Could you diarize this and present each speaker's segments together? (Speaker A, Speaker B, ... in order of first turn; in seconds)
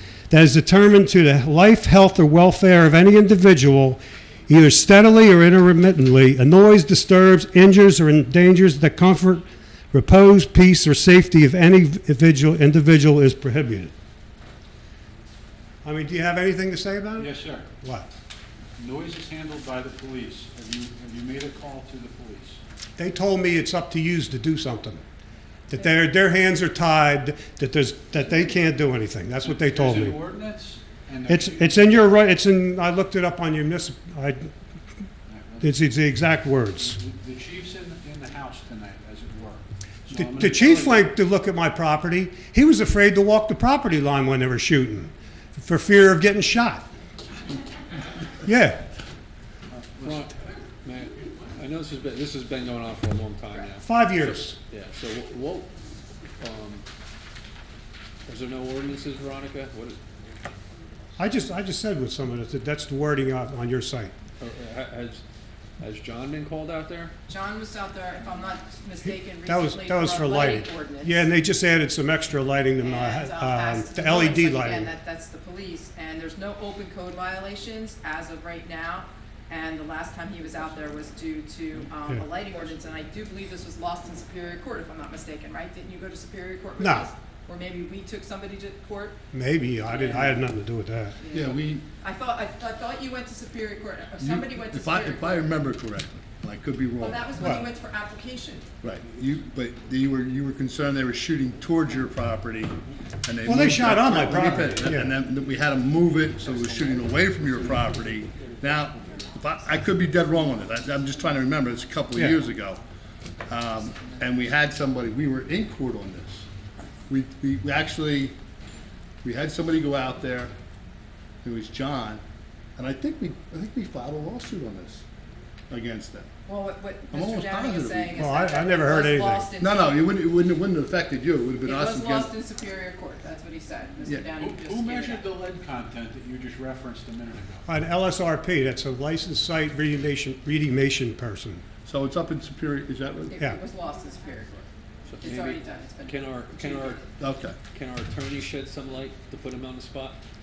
Speaker A: 0.3-13.9, 15.8-17.3, 17.8-18.1, 23.0-25.0, 25.7-30.2, 31.3-34.5, 35.6-37.0, 40.1-46.9, 48.4-48.8, 53.8-54.5, 61.2-64.1, 69.5-74.9, 86.8-87.1, 89.3-91.2, 97.4-97.7, 103.4-105.1, 128.2-129.5, 137.7-141.6
Speaker B: 17.2-17.7, 18.8-22.6, 29.4-32.0, 35.3-35.8, 36.8-41.1, 49.7-50.3, 134.4-137.6
Speaker C: 50.0-55.7, 56.4-56.8, 58.2-60.0, 64.4-65.2, 65.8-67.1, 145.1-147.1, 147.7-150.2
Speaker D: 67.3-71.3, 72.8-89.2, 89.9-90.3, 91.2-95.5, 97.0-98.7, 126.5-130.1, 131.6-135.2, 143.3-144.6, 145.2-147.0
Speaker E: 91.3-91.8, 94.2-97.3, 98.8-112.8, 113.5-116.5, 117.1-118.3, 119.2-120.5, 121.4-122.2, 122.8-125.0, 125.7-126.3, 127.1-128.2, 129.6-132.3, 141.8-143.3, 147.2-147.6